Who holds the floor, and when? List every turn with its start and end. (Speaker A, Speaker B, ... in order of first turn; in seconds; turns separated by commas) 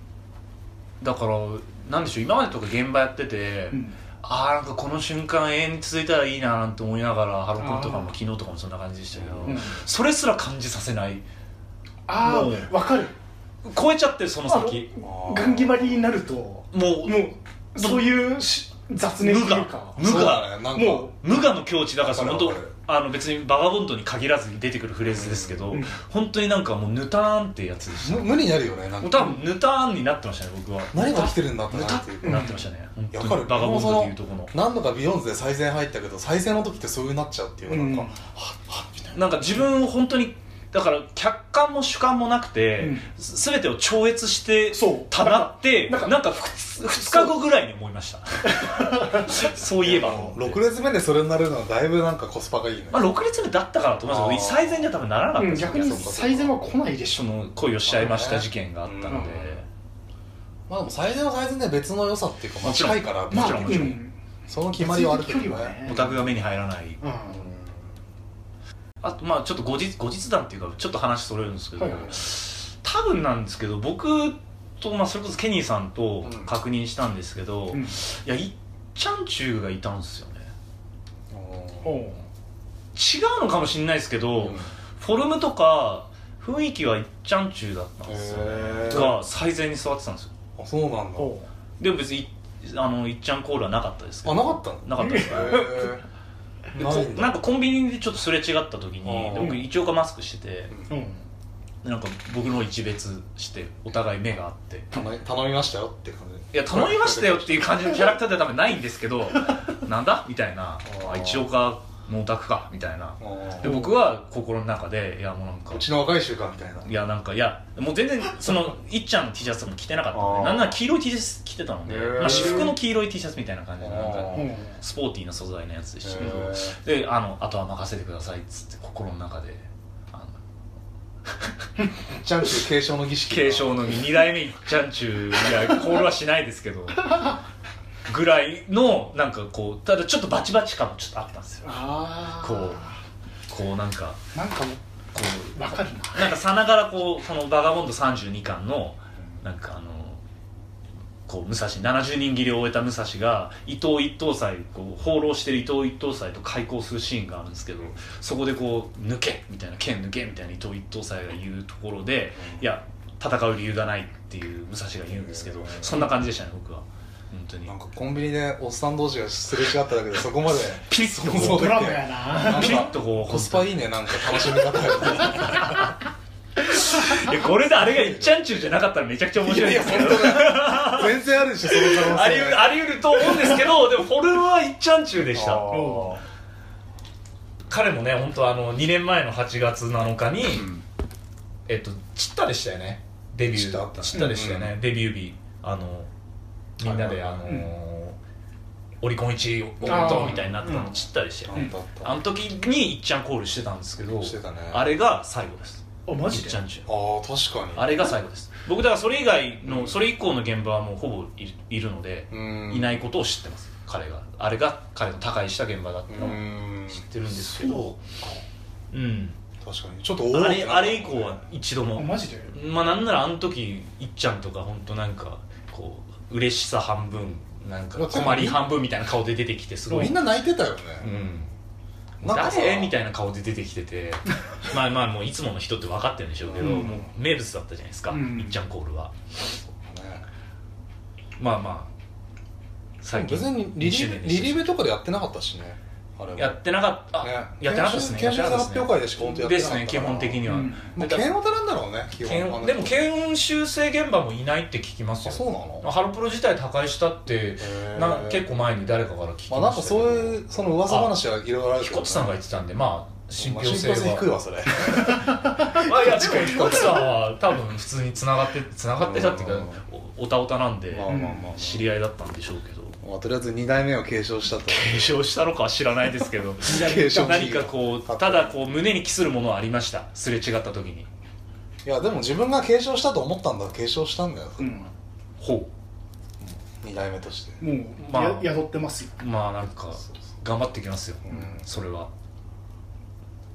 Speaker A: 1.0-11.2, Speaker B: 7.6-8.1, Speaker C: 9.1-9.6, Speaker B: 9.5-9.8, Speaker B: 12.1-13.1, Speaker A: 12.2-12.7, Speaker A: 13.7-14.9, Speaker B: 14.5-20.0, Speaker C: 15.0-16.0, Speaker A: 16.7-18.1, Speaker A: 19.2-34.5, Speaker C: 20.0-21.1, Speaker B: 20.8-21.1, Speaker C: 22.0-22.7, Speaker C: 25.1-25.7, Speaker C: 28.0-29.4, Speaker C: 30.9-32.5, Speaker B: 32.2-32.6, Speaker C: 33.1-39.4, Speaker B: 37.7-38.1, Speaker A: 39.1-50.6, Speaker B: 42.8-43.1, Speaker B: 44.7-46.2, Speaker B: 47.0-47.3, Speaker B: 48.5-49.4, Speaker C: 49.8-53.1, Speaker A: 52.9-56.3, Speaker C: 54.1-54.9, Speaker B: 55.4-57.3, Speaker C: 55.7-56.5, Speaker A: 57.1-59.6, Speaker C: 57.9-59.6, Speaker B: 59.1-59.4, Speaker C: 60.7-66.1, Speaker A: 62.6-64.0, Speaker B: 63.3-64.1, Speaker B: 64.7-66.1, Speaker A: 65.8-67.0, Speaker B: 67.0-67.5, Speaker C: 67.3-67.8, Speaker A: 69.0-80.5, Speaker B: 71.8-72.1, Speaker C: 71.9-72.2, Speaker C: 76.2-76.5, Speaker C: 81.3-82.1, Speaker B: 81.8-82.2, Speaker A: 83.0-90.3, Speaker C: 84.4-84.7, Speaker C: 88.1-89.2, Speaker C: 90.6-91.3, Speaker B: 91.2-91.5, Speaker A: 91.8-95.9, Speaker C: 94.2-96.0, Speaker B: 95.0-95.8, Speaker C: 96.7-97.4, Speaker A: 96.8-100.7, Speaker C: 99.0-99.6, Speaker B: 99.4-99.6, Speaker B: 100.9-101.2, Speaker A: 101.8-104.9, Speaker C: 104.9-108.0, Speaker A: 106.5-115.8, Speaker C: 110.9-111.5, Speaker C: 113.2-113.9, Speaker C: 115.7-116.9, Speaker A: 116.8-130.4, Speaker C: 120.1-120.8, Speaker C: 121.9-122.8, Speaker B: 122.2-122.7, Speaker C: 123.8-124.6, Speaker B: 124.3-124.7, Speaker C: 126.0-126.8, Speaker C: 132.1-134.1, Speaker A: 133.3-137.3, Speaker A: 138.1-141.8, Speaker B: 141.6-142.9, Speaker A: 142.4-142.9, Speaker A: 143.5-144.2, Speaker B: 144.3-144.8, Speaker A: 145.2-145.6, Speaker B: 145.5-146.3, Speaker A: 146.1-150.2, Speaker A: 151.3-167.7, Speaker C: 165.1-166.0, Speaker C: 167.7-175.8, Speaker A: 170.9-171.8, Speaker B: 171.3-172.9, Speaker A: 172.4-173.8, Speaker A: 175.2-175.9, Speaker A: 176.6-185.7, Speaker C: 177.8-178.3, Speaker C: 179.4-182.7, Speaker C: 185.3-186.2, Speaker B: 185.7-186.2, Speaker A: 187.7-190.7, Speaker C: 190.5-190.8, Speaker A: 191.7-196.1, Speaker C: 193.5-194.8, Speaker A: 196.8-198.2, Speaker C: 196.8-197.6, Speaker A: 199.0-206.9, Speaker C: 199.8-200.9, Speaker B: 199.8-200.8, Speaker C: 201.4-202.2, Speaker C: 204.2-204.8, Speaker B: 206.1-206.6, Speaker C: 206.9-208.1, Speaker A: 207.8-218.0, Speaker C: 209.7-210.0, Speaker C: 212.3-213.0, Speaker C: 216.1-217.1, Speaker A: 218.9-219.4, Speaker C: 219.6-221.4, Speaker A: 220.3-230.1, Speaker B: 222.0-222.5, Speaker C: 228.0-228.7, Speaker C: 229.9-231.1, Speaker A: 231.0-231.5, Speaker C: 232.2-232.9, Speaker A: 232.2-239.1, Speaker C: 236.4-237.1, Speaker B: 236.6-237.0, Speaker B: 238.1-238.6, Speaker C: 239.6-240.2, Speaker A: 241.4-241.9, Speaker A: 243.0-244.7, Speaker C: 243.1-246.6, Speaker A: 246.4-251.3, Speaker C: 247.2-253.1, Speaker B: 250.5-250.9, Speaker A: 252.2-261.1, Speaker C: 255.2-255.9, Speaker C: 257.6-258.4, Speaker C: 259.5-262.4, Speaker A: 261.8-264.3, Speaker C: 263.4-265.2, Speaker A: 265.7-273.0, Speaker C: 265.9-267.1, Speaker C: 269.0-269.8, Speaker C: 270.9-271.9, Speaker B: 271.1-271.5, Speaker C: 273.0-275.2, Speaker A: 274.6-281.1, Speaker C: 276.6-278.6, Speaker B: 276.7-277.5, Speaker C: 281.8-284.8, Speaker B: 284.6-284.9, Speaker A: 285.4-285.7, Speaker C: 286.8-287.6, Speaker B: 287.6-289.1, Speaker A: 288.0-288.5, Speaker A: 289.2-292.1, Speaker C: 291.3-291.7